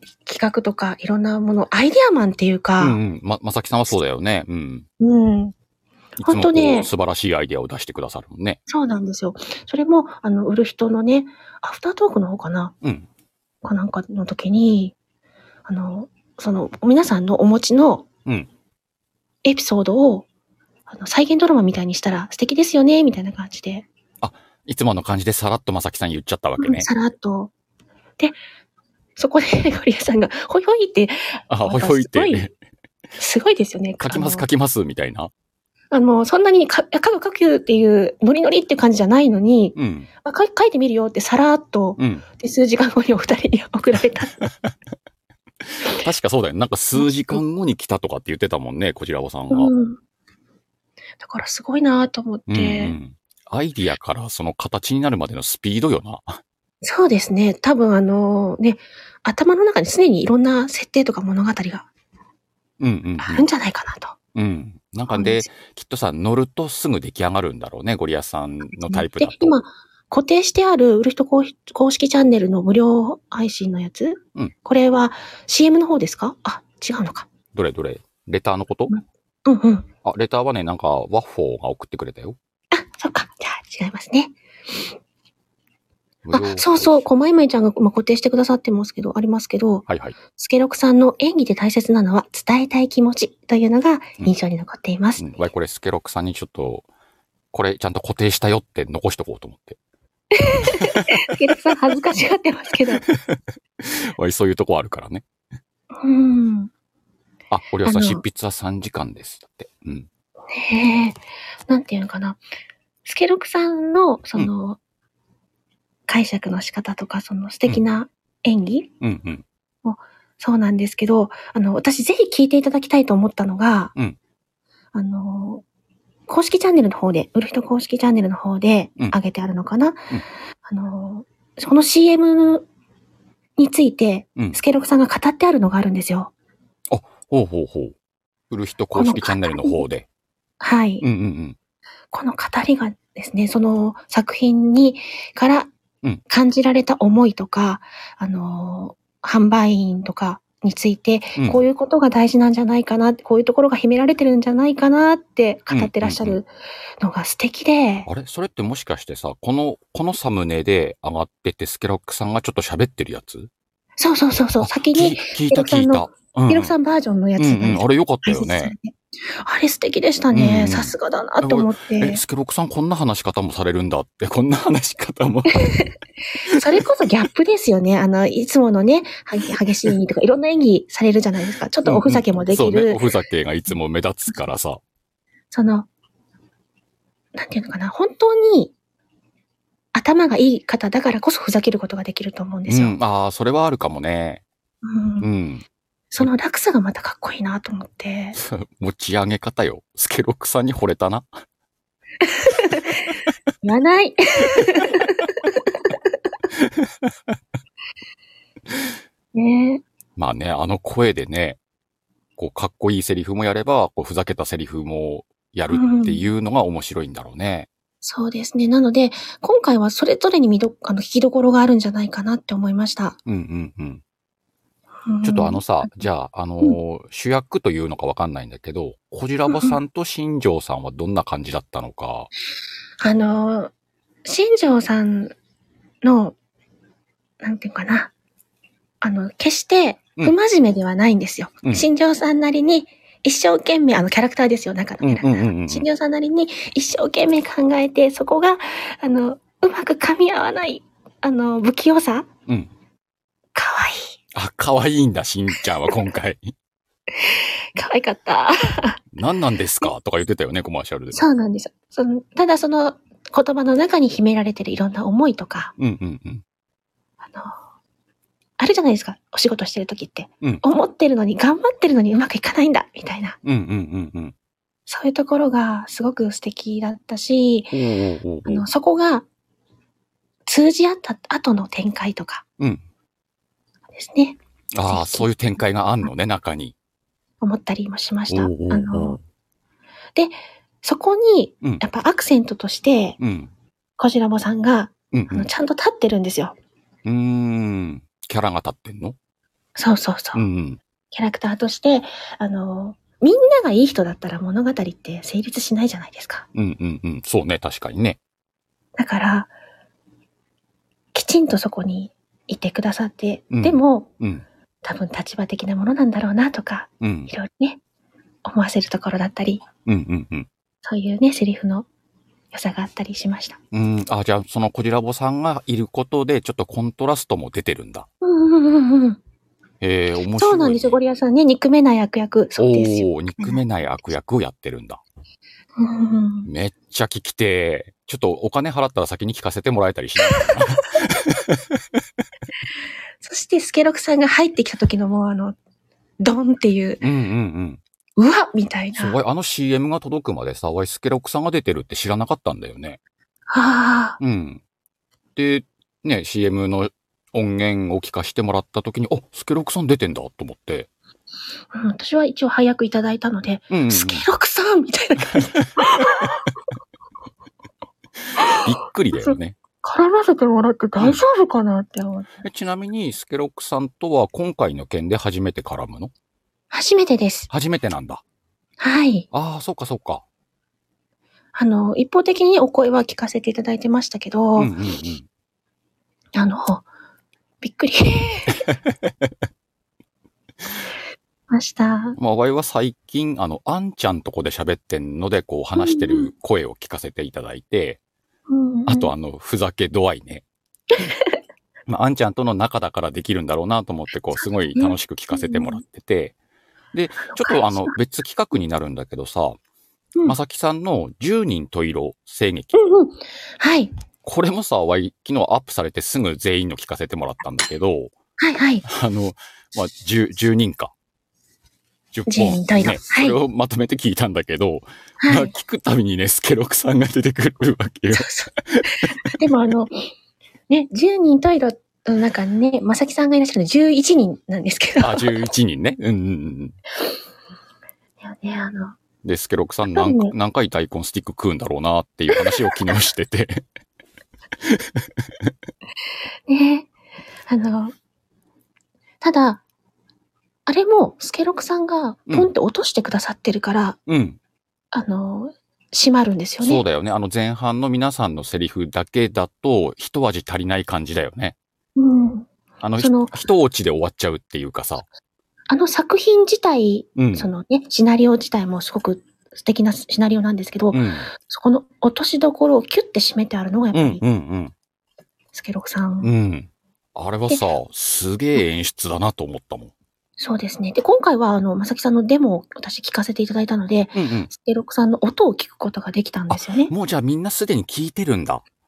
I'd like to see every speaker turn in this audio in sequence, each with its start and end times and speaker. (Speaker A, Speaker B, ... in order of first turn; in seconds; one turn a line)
Speaker A: 0.3-3.0
Speaker B: 2.8-4.9
Speaker A: 5.0-5.5
Speaker A: 6.2-6.9
Speaker B: 6.2-8.6
Speaker A: 8.7-12.7
Speaker B: 12.8-13.1
Speaker A: 13.6-14.9
Speaker A: 15.7-18.1
Speaker A: 19.4-20.3
Speaker A: 20.9-23.9
Speaker B: 24.2-26.9
Speaker A: 26.6-27.5
Speaker A: 29.2-32.5
Speaker B: 31.5-32.5
Speaker A: 33.2-34.5
Speaker B: 34.0-35.3
Speaker A: 35.9-44.4
Speaker B: 39.8-40.1
Speaker B: 42.0-42.3
Speaker B: 44.4-44.7
Speaker B: 45.7-49.7
Speaker A: 47.0-47.4
Speaker A: 49.5-50.0
Speaker A: 51.2-53.0
Speaker B: 52.5-56.4
Speaker A: 56.8-61.9
Speaker B: 62.8-63.5
Speaker A: 63.2-64.2
Speaker B: 64.3-69.6
Speaker A: 65.1-65.5
Speaker A: 68.7-77.3
Speaker B: 77.5-79.0
Speaker A: 78.9-79.9
Speaker B: 80.0-82.4
Speaker A: 82.7-84.9
Speaker B: 86.2-87.1
Speaker A: 86.3-89.8
Speaker B: 89.9-90.2
Speaker A: 90.4-95.2
Speaker B: 95.2-96.8
Speaker B: 97.5-99.8
Speaker A: 100.4-103.0
Speaker B: 100.6-101.0
Speaker B: 103.0-105.2
Speaker A: 106.0-106.7
Speaker B: 107.5-110.1
Speaker A: 107.9-108.2
Speaker A: 110.5-112.4
Speaker A: 113.0-114.8
Speaker A: 116.1-118.9
Speaker B: 119.0-119.5
Speaker A: 119.8-123.9
Speaker A: 124.9-125.6
Speaker A: 126.3-130.0
Speaker A: 130.7-132.7
Speaker A: 133.6-136.3
Speaker B: 136.9-137.9
Speaker B: 138.5-140.1
Speaker A: 138.9-139.8
Speaker A: 140.6-141.1
Speaker B: 141.0-141.6
Speaker A: 142.1-145.7
Speaker A: 146.3-156.5
Speaker B: 151.4-151.6
Speaker B: 155.7-156.4
Speaker A: 157.0-158.1
Speaker B: 158.1-163.5
Speaker A: 164.0-172.2
Speaker B: 164.6-166.7
Speaker B: 167.4-168.7
Speaker B: 170.3-175.8
Speaker A: 175.7-175.9
Speaker B: 176.5-176.8
Speaker A: 176.5-183.1
Speaker B: 181.8-184.8
Speaker A: 185.5-185.9
Speaker A: 187.3-188.7
Speaker A: 189.9-193.0
Speaker B: 192.7-194.4
Speaker A: 194.8-195.3
Speaker B: 195.2-195.6
Speaker A: 196.1-198.4
Speaker B: 198.4-201.4
Speaker A: 202.2-205.9
Speaker B: 206.6-207.1
Speaker A: 209.3-209.8
Speaker B: 210.2-211.6
Speaker B: 212.4-217.7
Speaker A: 215.7-216.2
Speaker A: 218.0-223.2
Speaker B: 223.3-224.0
Speaker A: 225.1-226.0
Speaker B: 225.2-232.3
Speaker A: 229.5-229.8
Speaker A: 233.0-233.7
Speaker A: 234.2-235.3
Speaker A: 236.0-236.3
Speaker A: 237.4-238.1
Speaker A: 239.0-252.3
Speaker B: 245.0-245.9
Speaker A: 253.6-254.2
Speaker B: 254.3-256.5
Speaker A: 257.2-259.0
Speaker B: 259.1-261.2
Speaker A: 261.1-265.7
Speaker B: 265.8-266.4
Speaker A: 267.3-267.6
Speaker A: 268.6-273.4
Speaker B: 273.4-274.3
Speaker A: 274.9-277.8
Speaker B: 277.7-278.7
Speaker A: 278.4-279.2
Speaker A: 280.5-282.4
Speaker A: 283.9-285.3
Speaker B: 284.7-286.8
Speaker A: 287.4-289.2
Speaker B: 288.3-289.2
Speaker A: 290.2-293.2
Speaker B: 293.2-293.5
Speaker A: 294.0-296.6
Speaker B: 295.1-295.5
Speaker B: 297.1-299.2
Speaker A: 299.8-300.4
Speaker B: 300.3-300.8
Speaker A: 301.1-306.5
Speaker B: 306.6-308.2
Speaker A: 309.0-309.5
Speaker A: 311.1-314.1
Speaker B: 313.5-314.4
Speaker A: 314.8-317.8
Speaker B: 317.0-317.3
Speaker A: 318.4-319.6
Speaker B: 319.9-320.5
Speaker A: 320.8-321.9
Speaker A: 322.5-323.6
Speaker B: 323.7-328.1
Speaker A: 328.2-329.2
Speaker B: 329.8-331.0
Speaker A: 330.4-333.6
Speaker B: 332.6-335.0
Speaker A: 335.8-336.5
Speaker B: 336.4-341.8
Speaker A: 343.2-345.6
Speaker A: 346.2-347.0
Speaker B: 347.0-347.8
Speaker A: 348.2-349.2
Speaker B: 349.0-353.0
Speaker A: 353.5-354.2
Speaker B: 354.2-354.6
Speaker B: 355.4-360.9
Speaker A: 361.7-366.4
Speaker B: 363.7-364.3
Speaker B: 365.3-366.3
Speaker B: 368.4-369.6
Speaker A: 369.2-372.3
Speaker B: 371.0-371.2
Speaker B: 372.4-376.1
Speaker A: 376.7-377.5
Speaker B: 377.5-378.2
Speaker A: 378.8-379.3
Speaker B: 379.3-380.2
Speaker A: 381.6-384.7
Speaker B: 384.6-385.3
Speaker A: 386.4-386.9
Speaker A: 387.6-388.6
Speaker A: 391.5-392.2
Speaker B: 392.2-398.0
Speaker A: 395.8-396.3
Speaker A: 398.5-399.1
Speaker B: 398.9-400.4
Speaker A: 401.0-401.4
Speaker B: 401.9-406.3
Speaker A: 404.4-405.8
Speaker B: 406.9-409.6
Speaker A: 407.2-408.0
Speaker B: 410.2-412.8
Speaker A: 412.7-413.9
Speaker B: 414.2-418.1
Speaker A: 418.4-418.9
Speaker B: 418.9-420.9
Speaker B: 422.1-429.3
Speaker A: 422.3-423.4
Speaker A: 425.2-425.5
Speaker A: 428.1-430.1
Speaker A: 430.7-435.4
Speaker B: 435.0-436.8
Speaker A: 438.2-439.0
Speaker B: 439.2-443.6
Speaker A: 439.9-440.3
Speaker B: 444.6-445.1
Speaker A: 446.5-446.9
Speaker A: 447.5-447.9
Speaker A: 449.2-449.6
Speaker A: 450.7-454.0
Speaker B: 454.1-454.4
Speaker A: 454.9-456.8
Speaker B: 456.6-461.6
Speaker A: 462.0-463.3
Speaker B: 462.8-465.1
Speaker A: 465.7-474.2
Speaker B: 467.2-467.5
Speaker B: 470.9-471.3
Speaker B: 473.9-474.7
Speaker A: 475.5-476.3
Speaker B: 476.2-479.9
Speaker A: 480.4-486.9
Speaker B: 484.1-484.5
Speaker B: 486.5-488.6